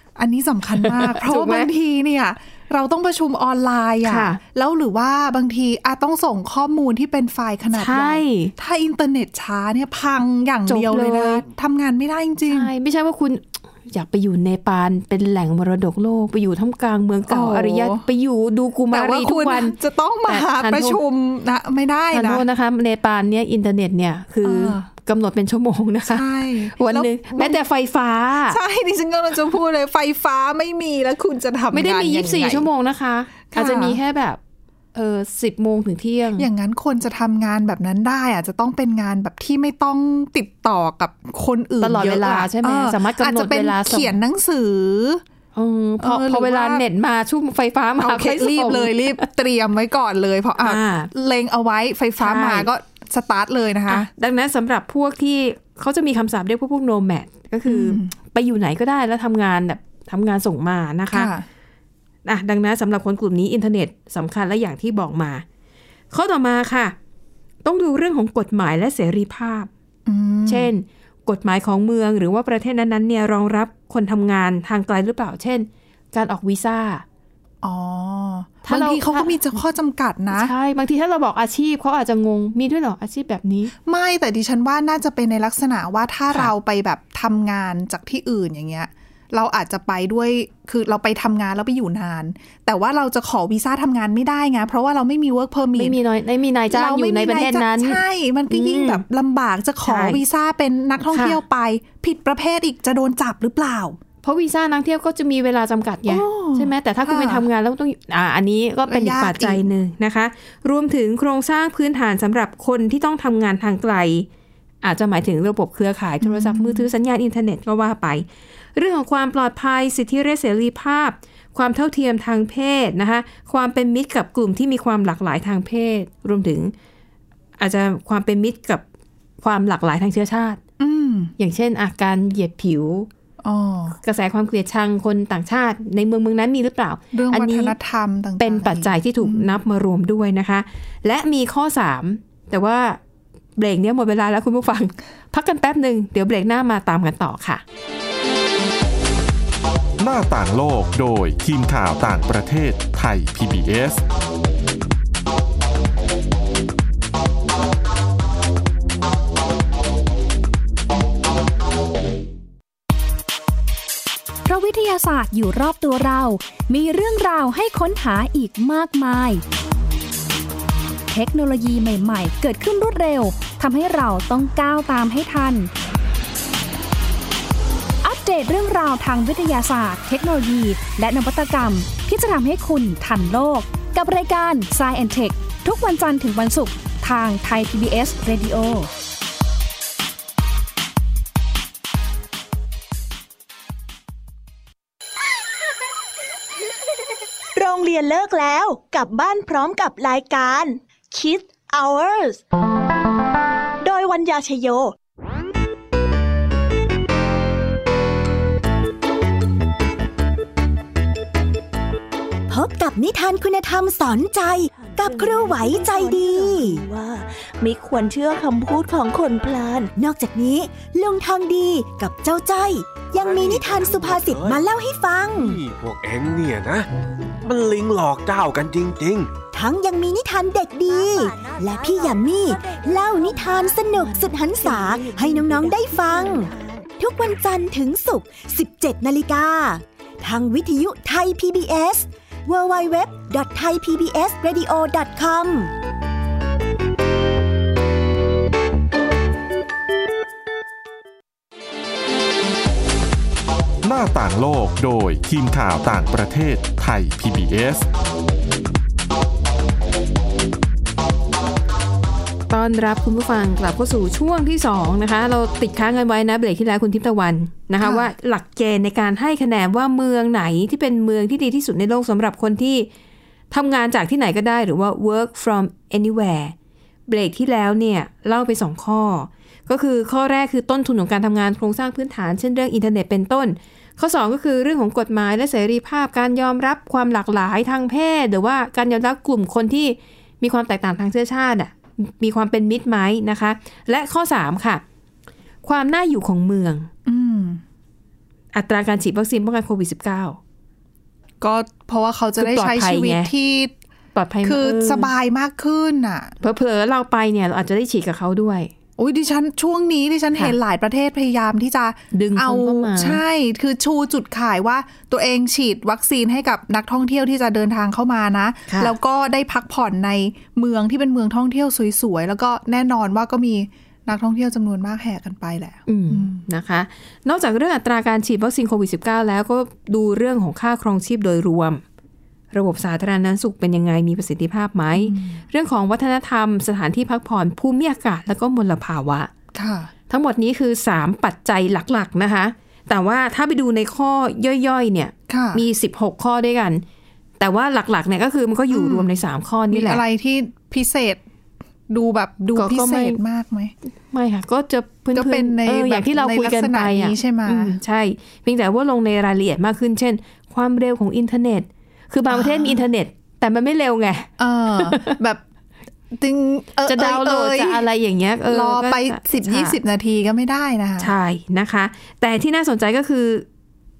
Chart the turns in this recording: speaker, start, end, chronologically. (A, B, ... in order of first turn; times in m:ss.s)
0:00.2-0:12.7 A
0:00.8-0:01.7 B
0:04.0-0:04.4 B
0:07.7-0:08.5 B
0:10.6-0:11.4 B
0:12.5-0:19.8 B
0:17.3-0:18.0 A
0:18.9-0:22.4 A
0:20.2-0:21.0 B
0:22.1-0:28.6 B
0:24.4-0:24.9 A
0:26.1-0:27.6 A
0:28.4-0:32.7 A
0:31.7-0:34.4 B
0:33.5-0:34.0 A
0:34.9-0:36.5 B
0:36.4-0:45.2 A
0:41.8-0:44.2 B
0:45.5-0:49.3 B
0:46.0-0:46.8 A
0:48.0-0:54.1 A
0:50.6-0:51.1 B
0:52.2-0:52.7 B
0:53.9-1:01.3 B
0:57.6-0:58.1 A
1:01.1-1:01.4 A
1:02.2-1:05.4 B
1:06.1-1:06.9 B
1:07.6-1:09.7 B
1:10.0-1:10.7 A
1:10.4-1:17.0 B
1:17.6-1:20.5 A
1:18.6-1:19.4 B
1:20.3-1:23.7 B
1:23.9-1:36.0 A
1:35.8-1:39.0 B
1:36.7-1:44.0 A
1:39.8-1:40.2 B
1:41.1-1:41.4 B
1:44.2-1:54.3 B
1:46.1-1:47.5 A
1:48.9-1:49.6 A
1:54.8-2:06.7 B
1:56.2-1:56.9 A
2:07.6-2:08.8 B
2:09.4-2:10.6 B
2:10.8-2:11.3 A
2:11.4-2:13.1 B
2:13.4-2:14.0 A
2:14.0-2:17.8 B
2:17.1-2:19.6 A
2:18.4-2:23.0 B
2:23.6-2:27.6 B
2:30.0-2:34.0 C
2:44.4-2:49.4 D
2:51.1-2:55.7 D
2:58.0-3:08.9 D
3:17.6-3:22.4 E
3:23.8-3:24.9 E
3:32.5-3:36.9 F
3:37.0-3:39.6 E
3:38.9-3:45.6 F
3:43.1-3:44.6 G
3:45.3-3:46.9 G
3:47.4-3:49.3 G
3:49.5-4:05.7 F
4:13.8-4:17.9 C
4:22.5-4:32.9 B
4:27.8-4:28.1 A
4:33.5-4:36.5 B
4:37.1-4:54.8 B
4:55.6-4:56.9 B
4:57.0-4:57.6 A
4:58.5-5:00.4 B
5:01.4-5:03.7 A
5:02.4-5:03.3 B
5:04.1-5:05.1 B
5:04.4-5:06.3 A
5:06.4-5:08.7 B
5:09.0-5:26.4 A
5:12.1-5:13.2 B
5:18.7-5:18.9 B
5:25.9-5:31.8 B
5:32.5-5:39.3 B
5:34.9-5:35.4 A
5:39.5-5:39.9 A
5:40.1-5:46.8 B
5:45.3-5:45.6 A
5:47.4-5:50.0 B
5:48.7-5:51.2 A
5:51.9-5:53.7 A
5:52.5-5:53.2 B
5:54.1-6:05.2 B
5:55.1-5:57.8 A
6:02.3-6:02.8 A
6:04.4-6:05.4 A
6:06.1-6:07.8 A
6:06.9-6:09.8 B
6:08.5-6:11.1 A
6:11.0-6:13.4 B